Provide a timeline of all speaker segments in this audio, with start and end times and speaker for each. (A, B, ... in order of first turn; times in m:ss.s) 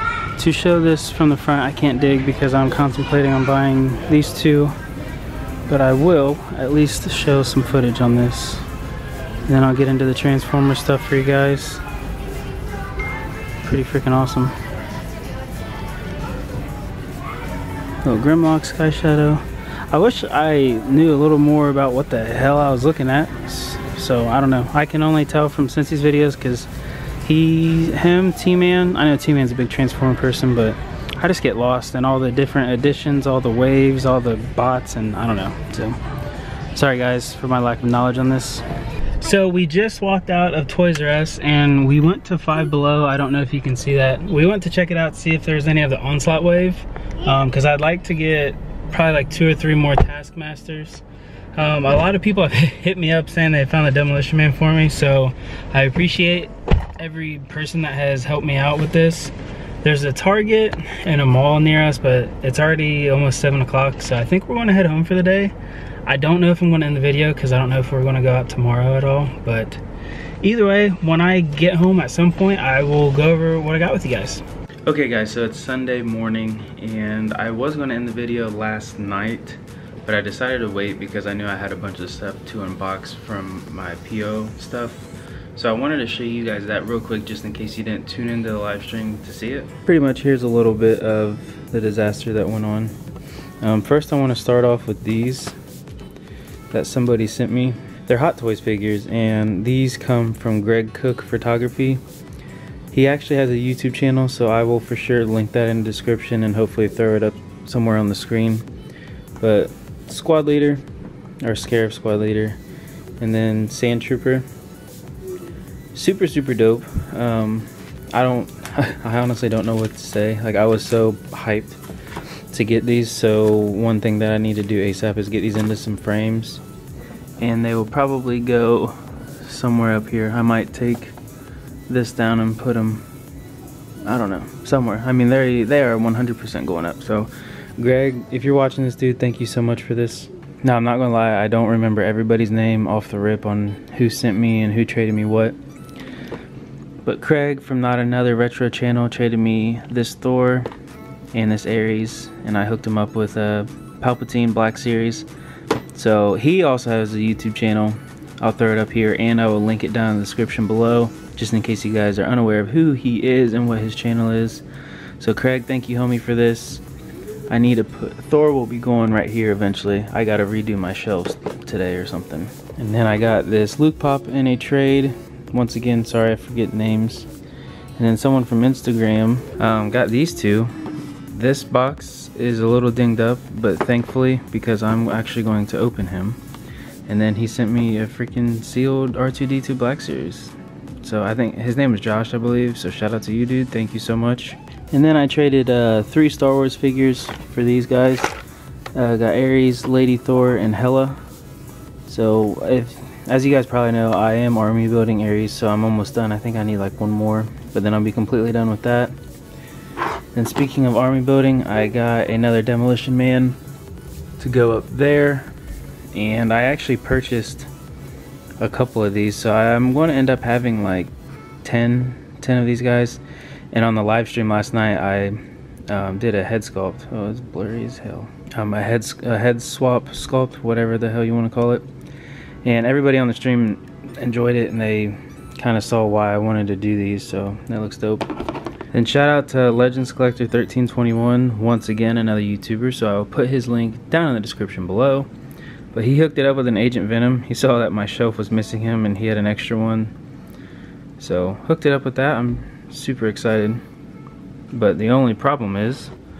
0:00.4-0:04.8 A
0:05.7-0:08.6 A
0:09.4-0:11.8 A
0:13.6-0:14.5 A
0:18.0-0:26.7 A
0:27.2-0:36.0 A
0:36.7-0:38.6 A
0:39.2-0:51.0 A
0:51.5-1:05.5 A
1:06.0-1:09.8 A
1:10.4-1:33.0 A
1:33.6-1:35.5 A
1:36.7-1:42.0 A
1:42.9-1:48.6 A
1:49.4-1:50.8 A
1:51.4-1:52.6 A
1:53.2-1:54.5 A
1:55.9-2:01.8 A
2:02.5-2:06.6 A
2:07.4-2:11.1 A
2:11.9-2:13.0 A
2:14.0-2:25.6 A
2:27.0-2:30.7 A
2:31.3-2:35.3 A
2:35.9-2:44.6 A
2:45.2-2:46.8 A
2:47.5-2:57.3 A
2:58.0-3:00.8 A
3:01.3-3:06.4 A
3:07.1-3:18.3 A
3:18.9-3:21.2 A
3:22.1-3:29.1 A
3:30.3-3:33.6 A
3:34.4-3:35.5 A
3:36.1-3:37.7 A
3:38.6-3:41.1 A
3:41.6-3:43.2 A
3:43.7-3:51.9 A
3:52.6-3:58.3 A
3:58.9-4:05.3 A
4:05.9-4:10.1 A
4:11.2-4:13.8 A
4:14.7-4:16.1 A